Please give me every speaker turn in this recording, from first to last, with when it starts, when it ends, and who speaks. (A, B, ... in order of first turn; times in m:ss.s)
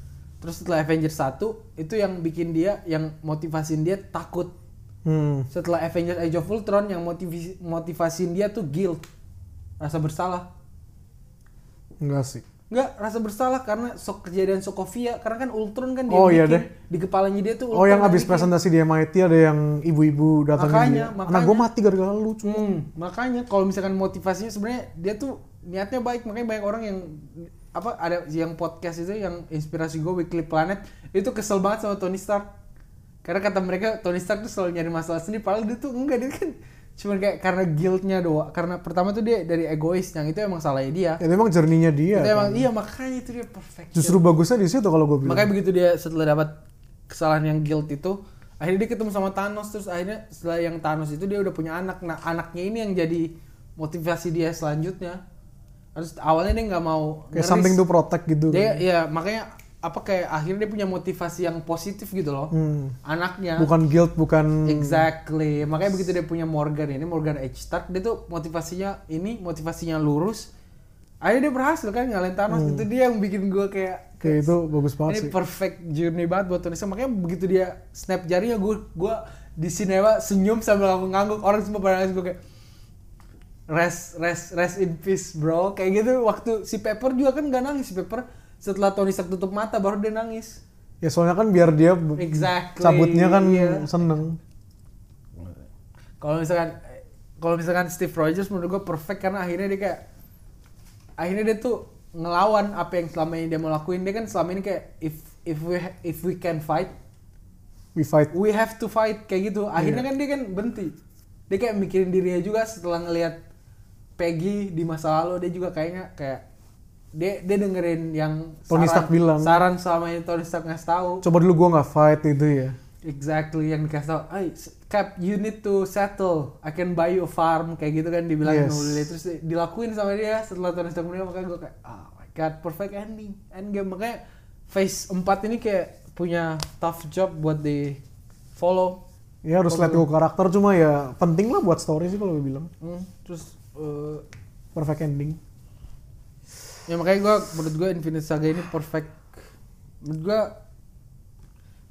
0:00.4-0:04.5 A
0:05.0-0:05.5 B
0:05.5-0:09.0 A
0:09.8-0:10.4 A
0:12.0-0:12.4 B
0:12.7-0:18.5 A
0:16.1-0:16.7 B
0:17.7-0:22.7 B
0:20.6-0:21.7 A
0:22.4-0:32.5 A
0:33.2-0:41.2 A
0:41.2-0:42.6 B
0:42.1-0:44.2 A
0:43.9-0:45.5 B
0:45.2-0:46.5 A
0:47.1-0:55.2 A
0:56.0-0:57.8 A
0:57.3-0:58.8 B
0:58.5-1:02.5 A
1:02.5-1:02.9 B
1:03.0-1:03.7 A
1:03.6-1:05.0 B
1:04.6-1:10.5 A
1:11.2-1:14.5 A
1:12.5-1:12.8 B
1:14.2-1:15.3 B
1:15.0-1:22.4 A
1:23.7-1:30.6 A
1:31.0-1:34.4 B
1:32.2-1:33.9 A
1:36.2-1:40.0 A
1:41.2-1:46.9 A
1:47.9-1:48.3 B
1:48.3-1:51.0 A
1:49.8-1:50.0 B
1:51.5-1:53.4 A
1:54.2-1:56.4 A
1:57.1-2:01.2 A
1:58.7-1:59.6 B
2:01.2-2:02.8 B
2:03.0-2:18.0 A
2:08.4-2:09.1 B
2:18.5-2:19.0 A
2:19.4-2:22.7 B
2:19.7-2:20.1 A
2:22.8-2:24.2 A
2:24.7-2:25.4 B
2:26.9-2:29.2 A
2:30.0-2:30.5 A